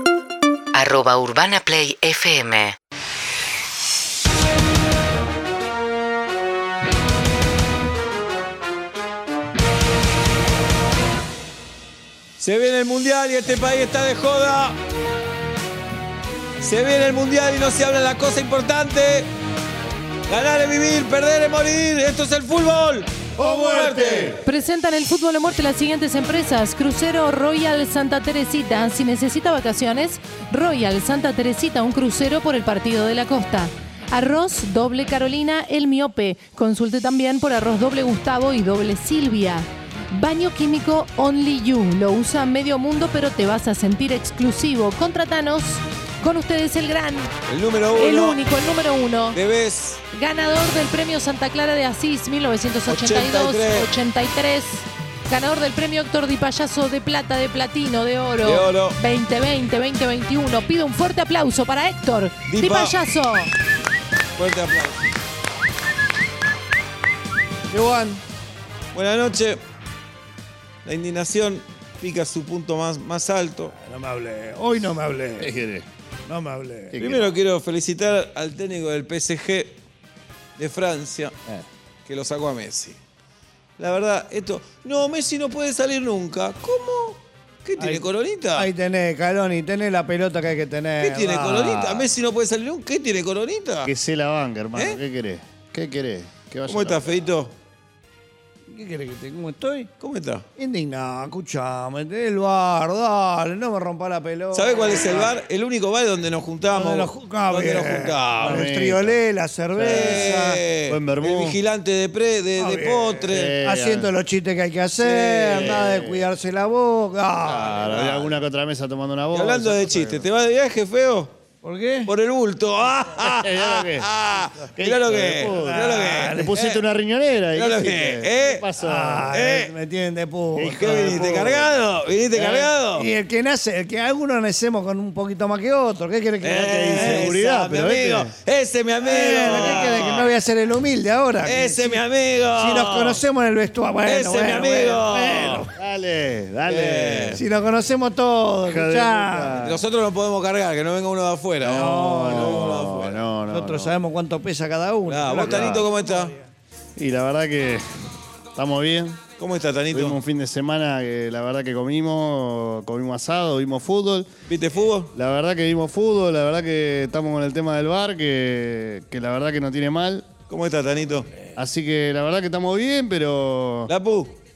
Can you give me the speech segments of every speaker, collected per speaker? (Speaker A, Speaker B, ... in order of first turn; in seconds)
Speaker A: 0.7-2.8
Speaker B: 12.4-14.8, 16.6-19.3, 20.3-24.4, 47.5-48.4, 49.3-50.0, 52.9-53.9, 58.4-59.0, 62.5-63.0, 64.3-65.0, 68.9-69.6, 70.8-73.7, 77.0-79.8, 80.6-81.3, 82.0-83.0, 83.8-88.7, 91.0-93.9, 96.7-97.5, 100.0-100.4, 104.5-108.6, 109.8-113.5, 115.0-115.7, 117.9-118.3, 119.3-121.3, 122.0-126.8, 127.5-128.7, 129.3-129.7, 130.7-133.1, 136.4-140.3, 141.4-143.2, 144.0-145.6, 146.7-147.4, 149.6-153.2, 155.1-156.3, 159.4-160.2, 164.4-165.1, 170.5-171.3, 173.9-174.3
Speaker C: 23.4-24.4, 67.7-68.2, 75.4-75.8, 76.9-77.3, 91.3-92.1, 93.8-97.2, 108.4-109.2, 109.7-111.6, 113.2-114.1, 115.4-116.3, 117.4-120.3, 123.2-124.1, 124.8-129.3, 130.6-131.3, 132.3-132.7, 136.4-138.3, 139.5-139.9, 145.7-147.4, 148.6-149.8, 151.6-153.9, 155.5-155.8, 156.9-157.8, 158.5-159.2, 159.9-164.3, 165.1-170.3, 171.6-173.9
Speaker D: 24.4-47.3, 48.0-49.4, 50.1-63.5
Speaker E: 73.8-75.5, 76.3-77.1, 87.8-91.5, 98.7-99.9, 100.6-105.3, 106.7-110.6, 112.6-118.0, 121.6-122.1, 125.5-126.5, 128.8-131.6, 132.9-137.3, 139.0-145.7, 147.3-149.6, 151.7-152.8, 153.5-156.5